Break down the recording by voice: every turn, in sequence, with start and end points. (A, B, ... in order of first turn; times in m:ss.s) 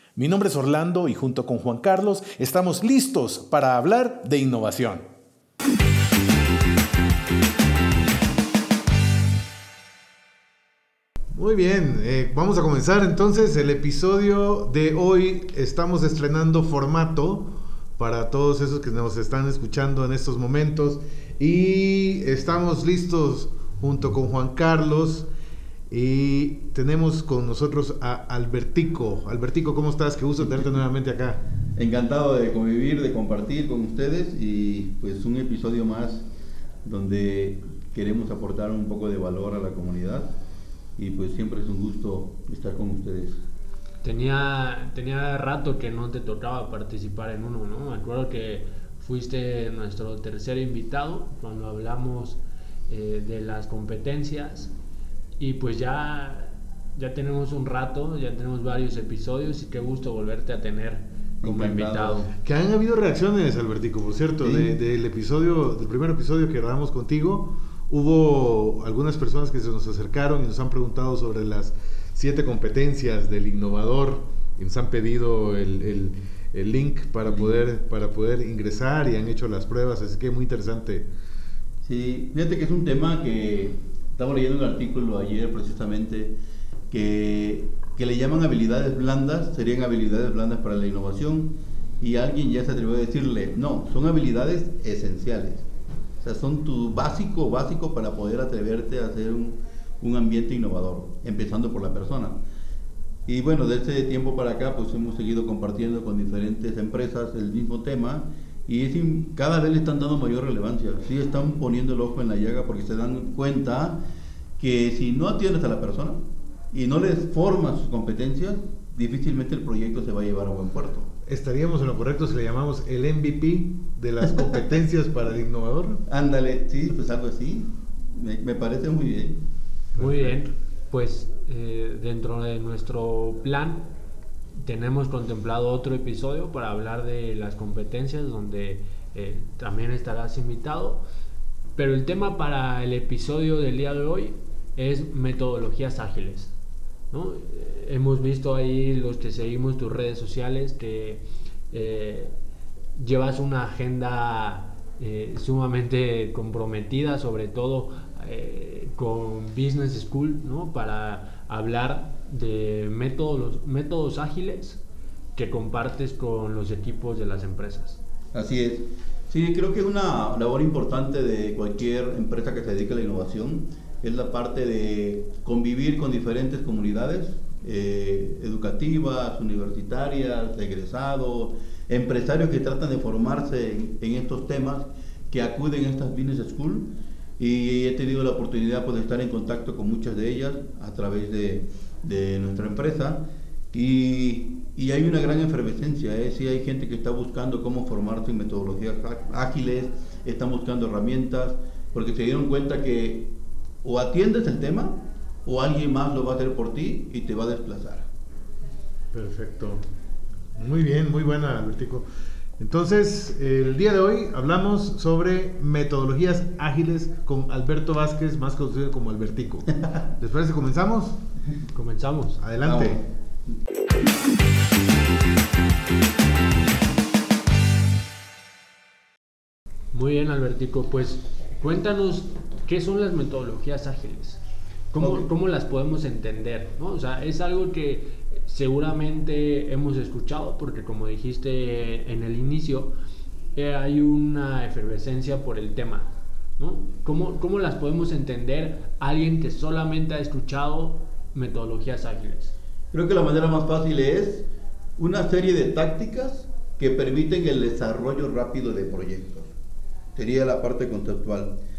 0:00.2-0:05.1 A
0:11.3-0:25.3 A
0:25.9-0:31.4 A
0:31.8-0:36.2 B
0:36.8-0:40.3 B
0:41.0-0:43.4 B
0:44.0-0:54.7 C
0:55.4-1:02.3 C
1:01.4-1:02.3 B
1:02.4-1:21.1 A
1:04.4-1:04.7 B
1:17.3-1:17.6 B
1:21.8-1:26.3 B
1:26.9-1:31.5 B
1:32.0-1:35.6 B
1:36.2-1:42.3 B
1:43.3-1:54.0 B
1:54.6-1:56.2 B
1:56.7-2:01.1 B
2:01.2-2:06.0 A
2:04.2-2:04.7 B
2:06.1-2:09.4 B
2:10.0-2:13.8 C
2:10.0-2:10.2 A
2:14.6-2:21.0 C
2:21.8-2:26.5 C
2:27.1-2:32.3 C
2:33.0-2:44.8 C
2:45.4-2:48.0 C
2:48.3-3:23.3 B
3:23.8-3:24.9 B
3:25.4-3:28.0 B
3:29.1-3:29.8 A
3:30.6-3:32.0 A
3:32.6-3:41.2 A
3:41.7-3:42.4 C
3:42.4-3:43.0 A
3:42.6-3:43.6 B
3:49.9-3:54.4 C
3:54.9-4:02.9 C
3:55.0-3:55.2 B
4:03.5-4:12.5 C
4:12.9-4:14.4 B
4:15.0-4:19.5 B
4:20.1-4:21.5 B